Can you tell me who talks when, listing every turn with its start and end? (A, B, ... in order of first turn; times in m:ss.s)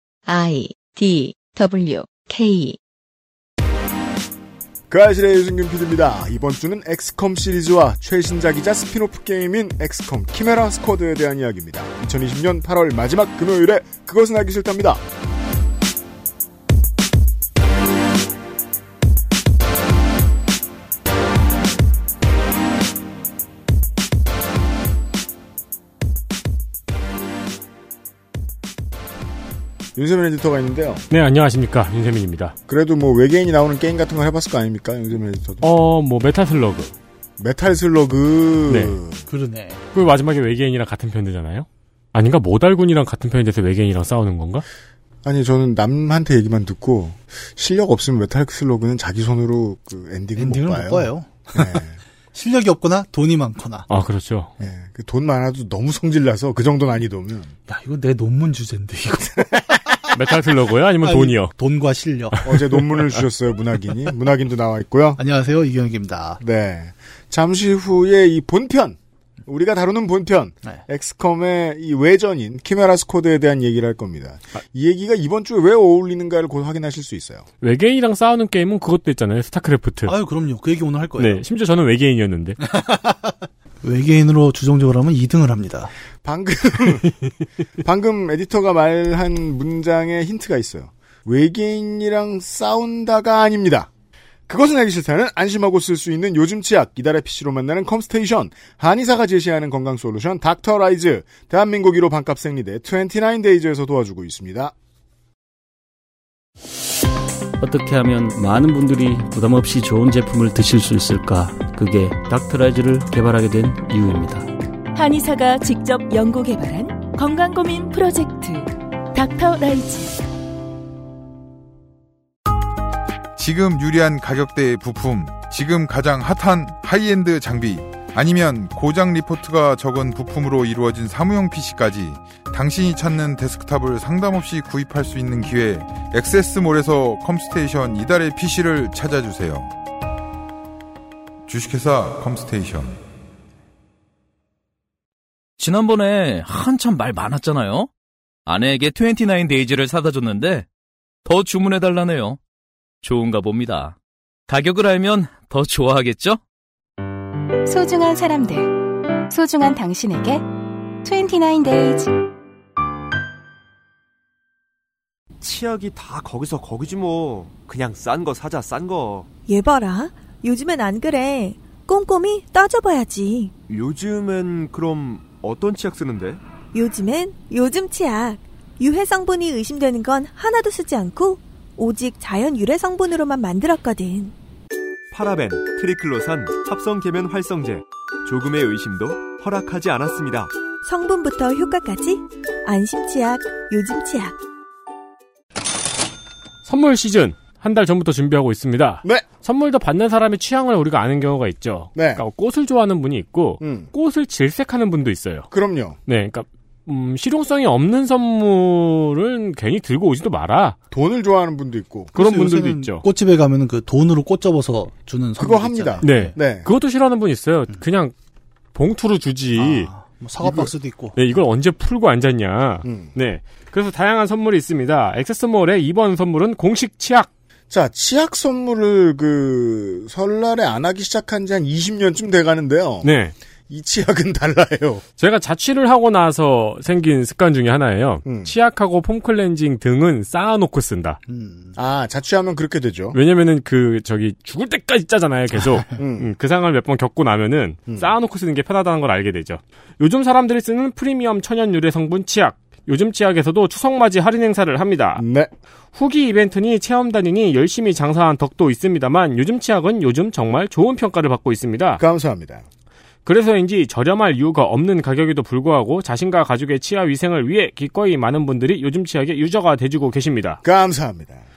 0:00.2-0:02.8 A
0:04.9-0:15.0 B
0:30.0-0:31.1 B
0:31.1-0:32.5 C
0:32.7-0:35.7 B
0:35.6-0:36.9 C
0:37.4-0:39.2 B
0:38.7-0:39.0 C
0:39.3-0:39.8 D
0:39.9-0:44.6 C
0:45.2-0:52.0 B
0:50.4-0:51.7 D
0:52.3-0:53.9 D
0:53.9-0:54.5 C
0:54.6-0:57.5 B
0:57.7-0:59.8 D
1:00.1-1:01.5 C
1:01.0-1:02.6 D
1:02.4-1:05.2 B
1:05.2-1:06.4 D
1:06.4-1:17.4 B
1:17.6-1:20.1 C
1:20.0-1:21.4 D
1:21.2-1:22.6 C
1:22.6-1:25.9 D
1:26.2-1:27.1 B
1:27.8-1:33.9 B
1:34.5-1:44.7 B
1:47.6-1:54.5 E
1:54.9-2:00.2 F
2:03.4-2:19.7 G
2:21.4-2:23.0 G
2:25.6-2:27.9 H
2:28.4-2:30.7 H
2:31.2-2:32.4 H
2:33.0-2:34.0 H
2:34.5-2:36.4 H
2:37.6-2:40.4 I
2:41.0-2:42.1 I
2:45.4-2:49.3 J
2:49.4-2:53.5 K
2:53.7-2:56.4 J
2:56.7-3:04.3 K
3:05.1-3:10.5 J
3:10.8-3:14.4 K
3:16.6-3:25.5 C
3:22.0-3:22.2 B
3:23.6-3:23.9 B
3:25.5-3:26.0 B
3:26.1-3:30.8 C
3:30.9-3:32.1 B
3:32.1-3:33.0 C
3:32.2-3:36.3 D
3:35.4-3:36.7 B
3:36.0-3:38.1 C
3:38.7-3:39.9 C
3:39.6-3:41.2 D
3:40.4-3:40.7 B
3:41.2-3:47.3 C
3:42.8-3:43.1 B
3:47.7-3:53.1 B
3:53.0-3:53.3 C
3:53.7-3:55.0 B
3:55.2-4:01.2 C
3:58.2-3:58.5 B
4:01.3-4:01.7 D
4:01.8-4:03.2 B
4:03.1-4:15.2 C
4:06.0-4:06.3 B
4:15.2-4:15.5 B
4:15.9-4:22.0 C
4:22.0-4:22.6 B
4:23.2-4:30.6 C
4:30.6-4:31.4 B